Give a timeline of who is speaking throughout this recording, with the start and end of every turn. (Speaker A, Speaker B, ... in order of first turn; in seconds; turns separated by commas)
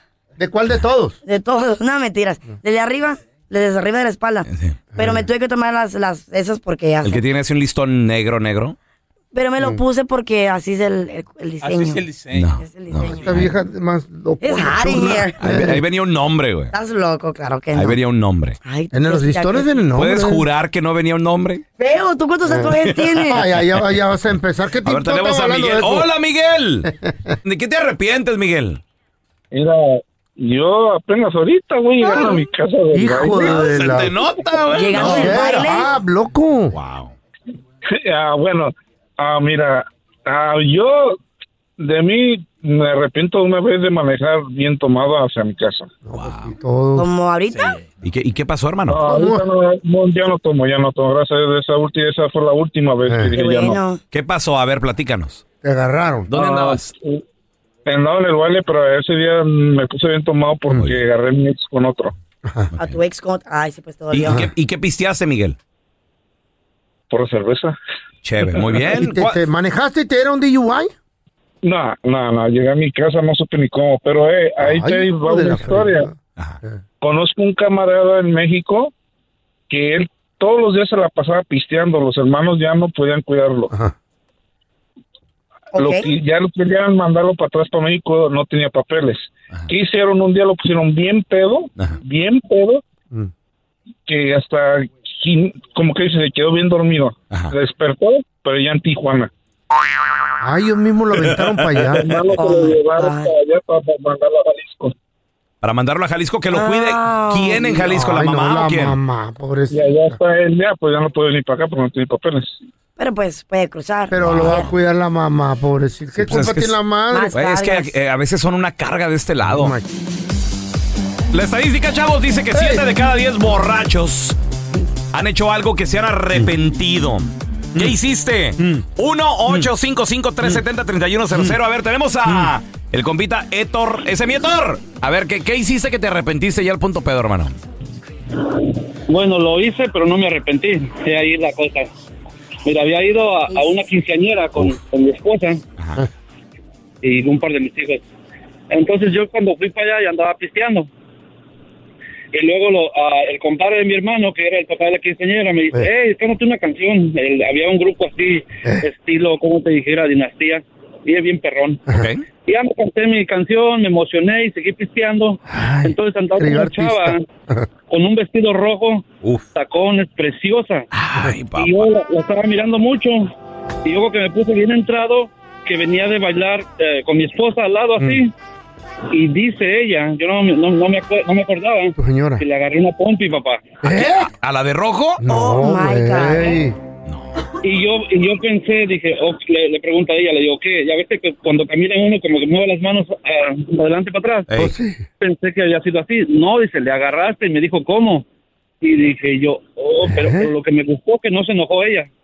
Speaker A: 0.4-1.2, Speaker B: 1.2-7.2, Speaker C: 4.5-4.8, Speaker A: 4.9-5.2, Speaker C: 7.0-8.8, Speaker B: 9.3-13.3, Speaker C: 12.3-13.5, Speaker A: 13.2-15.8, Speaker B: 14.4-15.6, Speaker C: 15.4-16.7, Speaker B: 16.7-17.9, Speaker C: 17.7-18.6, Speaker B: 18.6-19.7, Speaker A: 18.9-20.4, Speaker C: 19.9-21.6, Speaker B: 21.8-23.4, Speaker A: 22.4-26.1, Speaker C: 22.8-23.4, Speaker C: 24.8-26.9, Speaker A: 26.9-27.3, Speaker C: 27.4-28.8, Speaker D: 29.5-34.0, Speaker A: 32.9-34.1, Speaker C: 33.4-35.6, Speaker B: 34.7-35.9, Speaker A: 34.9-36.7, Speaker C: 36.7-37.1, Speaker D: 37.9-41.2, Speaker D: 41.8-45.9, Speaker A: 46.0-47.1, Speaker C: 46.2-46.5, Speaker B: 47.0-47.8, Speaker C: 48.0-49.0, Speaker D: 48.9-53.8, Speaker A: 49.0-49.4, Speaker A: 53.0-53.3, Speaker B: 53.3-54.0, Speaker C: 54.1-55.4, Speaker A: 55.6-56.3, Speaker C: 56.3-56.9, Speaker D: 56.3-57.2, Speaker D: 57.9-62.1, Speaker A: 62.4-62.7, Speaker C: 62.7-63.0, Speaker B: 62.8-64.5, Speaker C: 64.1-65.6, Speaker D: 67.1-67.7, Speaker C: 68.2-69.4, Speaker A: 68.8-70.9, Speaker D: 71.6-76.1, Speaker A: 74.6-76.8, Speaker D: 77.0-78.9, Speaker D: 79.7-83.7, Speaker A: 83.7-83.9, Speaker B: 85.7-86.1, Speaker D: 85.8-92.8, Speaker D: 94.1-99.3, Speaker A: 100.4-102.1, Speaker C: 101.4-102.0, Speaker D: 102.0-104.9, Speaker B: 102.3-103.3, Speaker C: 105.6-109.0, Speaker B: 106.5-107.8, Speaker A: 107.8-110.2, Speaker D: 109.7-112.6, Speaker B: 113.0-114.7, Speaker A: 114.1-117.3, Speaker C: 116.2-116.7, Speaker B: 117.1-117.9, Speaker C: 117.3-119.7, Speaker A: 119.5-119.8, Speaker C: 121.3-124.3, Speaker A: 122.5-122.8, Speaker C: 125.1-137.5, Speaker E: 139.1-141.9, Speaker E: 142.7-145.6, Speaker C: 145.8-146.0, Speaker E: 147.0-148.0, Speaker E: 148.7-150.9, Speaker E: 152.3-161.8, Speaker C: 161.9-162.2, Speaker E: 162.4-167.2, Speaker A: 165.5-167.7, Speaker E: 167.9-170.9, Speaker C: 170.9-171.9, Speaker E: 171.5-173.3, Speaker E: 173.8-178.3, Speaker E: 179.1-183.8, Speaker A: 182.0-182.4, Speaker A: 183.8-184.3, Speaker C: 183.9-185.2, Speaker A: 185.2-186.8, Speaker B: 185.3-186.6, Speaker C: 187.1-187.4, Speaker E: 187.6-194.5, Speaker A: 194.5-195.1, Speaker E: 195.2-198.2, Speaker E: 198.8-202.1, Speaker A: 200.0-200.5